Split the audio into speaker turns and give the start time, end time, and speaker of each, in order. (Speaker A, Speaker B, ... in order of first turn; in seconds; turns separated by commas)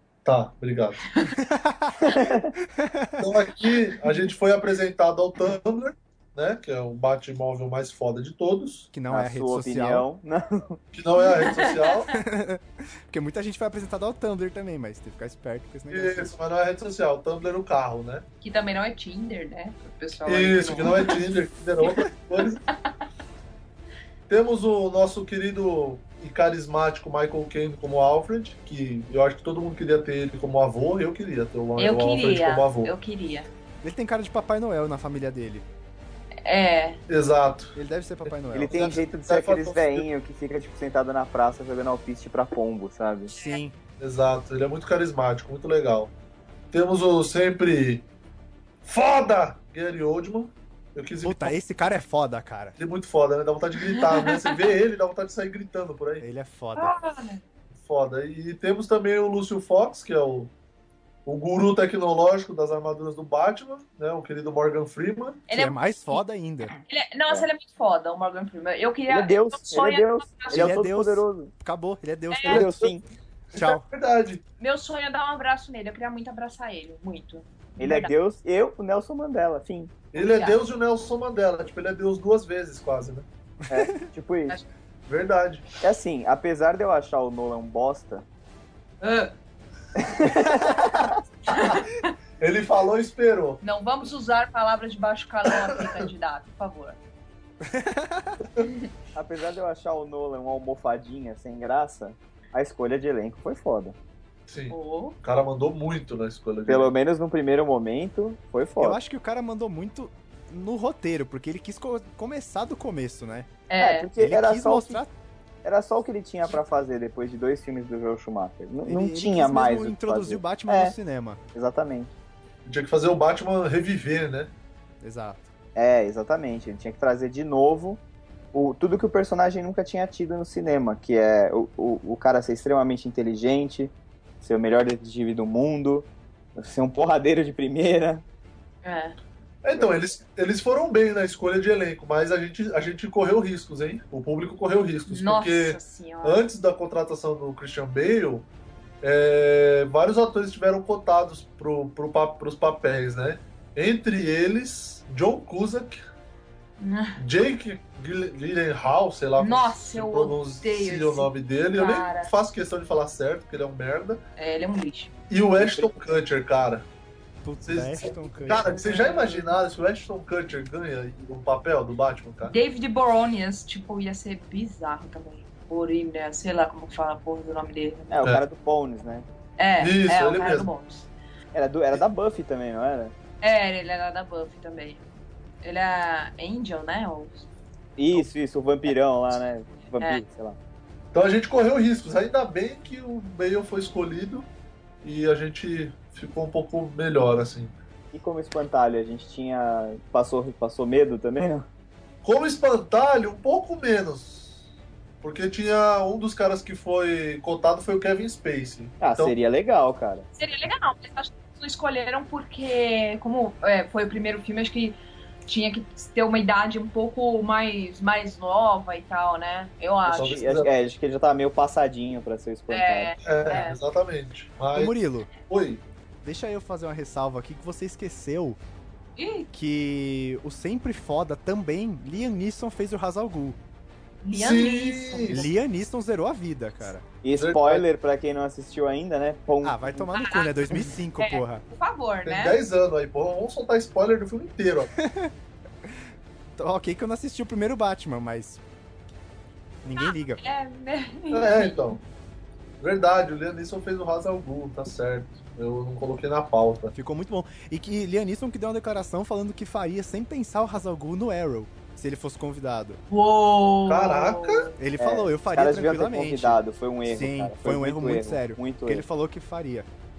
Speaker A: 0.2-1.0, Speaker B: 1.1-1.3, Speaker C: 1.3-3.3, Speaker D: 2.0-2.5, Speaker A: 3.2-8.9, Speaker C: 8.9-10.1, Speaker D: 9.1-10.8, Speaker A: 10.9-12.1, Speaker B: 11.2-12.2, Speaker C: 12.1-16.3, Speaker A: 15.9-18.2, Speaker B: 18.4-21.2, Speaker A: 20.2-22.6, Speaker A: 24.3-32.9, Speaker B: 31.8-33.5, Speaker C: 33.8-35.6, Speaker B: 36.4-37.0, Speaker A: 37.1-37.8, Speaker C: 37.7-38.8, Speaker D: 38.5-43.3, Speaker A: 38.7-40.1, Speaker C: 43.3-43.7, Speaker B: 43.3-43.6, Speaker A: 44.0-46.1, Speaker A: 46.7-48.0, Speaker A: 48.8-51.5, Speaker C: 51.2-52.8, Speaker A: 52.8-56.2, Speaker B: 53.8-54.7, Speaker C: 56.2-56.9, Speaker B: 56.7-57.4, Speaker A: 57.7-60.5, Speaker A: 61.2-65.5, Speaker B: 65.5-66.2, Speaker C: 65.5-66.7, Speaker B: 66.8-70.7, Speaker D: 69.1-71.5, Speaker C: 70.5-72.8, Speaker B: 72.3-72.6, Speaker D: 72.5-73.0, Speaker A: 72.5-73.0, Speaker C: 73.5-73.8, Speaker A: 73.5-74.4, Speaker B: 74.6-78.1, Speaker D: 77.8-79.9, Speaker A: 80.1-83.2, Speaker B: 80.1-80.6, Speaker C: 83.7-84.0, Speaker D: 83.7-84.6, Speaker A: 85.1-85.6, Speaker D: 85.8-88.2, Speaker B: 89.0-89.3, Speaker D: 89.9-91.2, Speaker C: 90.7-91.0, Speaker B: 91.5-92.1, Speaker A: 91.5-91.8, Speaker A: 92.4-93.6, Speaker B: 93.6-97.0, Speaker A: 95.5-96.1, Speaker C: 97.6-98.5, Speaker D: 99.1-104.0, Speaker A: 104.5-106.9, Speaker B: 104.7-105.2, Speaker D: 106.7-109.0, Speaker C: 108.8-113.5, Speaker B: 113.7-114.1, Speaker D: 113.8-115.0, Speaker C: 114.2-115.1, Speaker D: 115.6-120.9, Speaker C: 118.9-121.4, Speaker D: 121.5-122.1, Speaker A: 122.7-124.5, Speaker C: 125.0-125.5, Speaker D: 125.8-128.0, Speaker D: 128.5-138.2, Speaker B: 138.8-139.2, Speaker A: 139.6-148.5, Speaker B: 145.1-146.4, Speaker A: 149.0-156.0, Speaker B: 156.8-157.2, Speaker A: 157.2-164.2, Speaker B: 159.4-162.3, Speaker B: 164.4-165.1, Speaker A: 165.3-166.9, Speaker D: 165.6-165.9, Speaker C: 167.4-168.7, Speaker A: 167.6-172.5, Speaker B: 168.4-169.5, Speaker B: 172.4-178.1, Speaker D: 178.1-179.2, Speaker B: 179.6-181.1, Speaker A: 179.8-180.7, Speaker D: 181.5-183.1, Speaker B: 183.4-185.0, Speaker B: 185.6-187.5, Speaker D: 188.0-190.6, Speaker B: 190.0-190.2, Speaker A: 191.1-194.5, Speaker A: 195.0-197.7, Speaker D: 198.1-201.7, Speaker A: 202.2-204.6, Speaker A: 205.2-209.3, Speaker D: 209.0-210.2, Speaker B: 210.4-220.4, Speaker A: 220.1-220.7, Speaker D: 220.1-223.1, Speaker B: 222.7-223.8, Speaker A: 223.2-224.9, Speaker C: 224.7-225.3, Speaker A: 225.5-225.8, Speaker C: 226.2-228.6, Speaker B: 229.2-229.5, Speaker C: 229.5-233.6, Speaker B: 234.2-235.5, Speaker A: 234.3-235.5, Speaker C: 235.3-237.0, Speaker D: 237.2-240.1, Speaker A: 237.4-237.8, Speaker C: 239.6-241.6, Speaker B: 240.1-242.6, Speaker A: 242.2-244.9, Speaker C: 245.0-245.3, Speaker C: 246.6-248.6, Speaker C: 249.8-250.4, Speaker B: 250.0-251.9, Speaker A: 251.3-252.0, Speaker A: 252.8-256.9, Speaker C: 256.9-263.0, Speaker B: 263.1-264.7, Speaker A: 263.9-264.7, Speaker C: 264.8-269.9, Speaker D: 265.0-269.0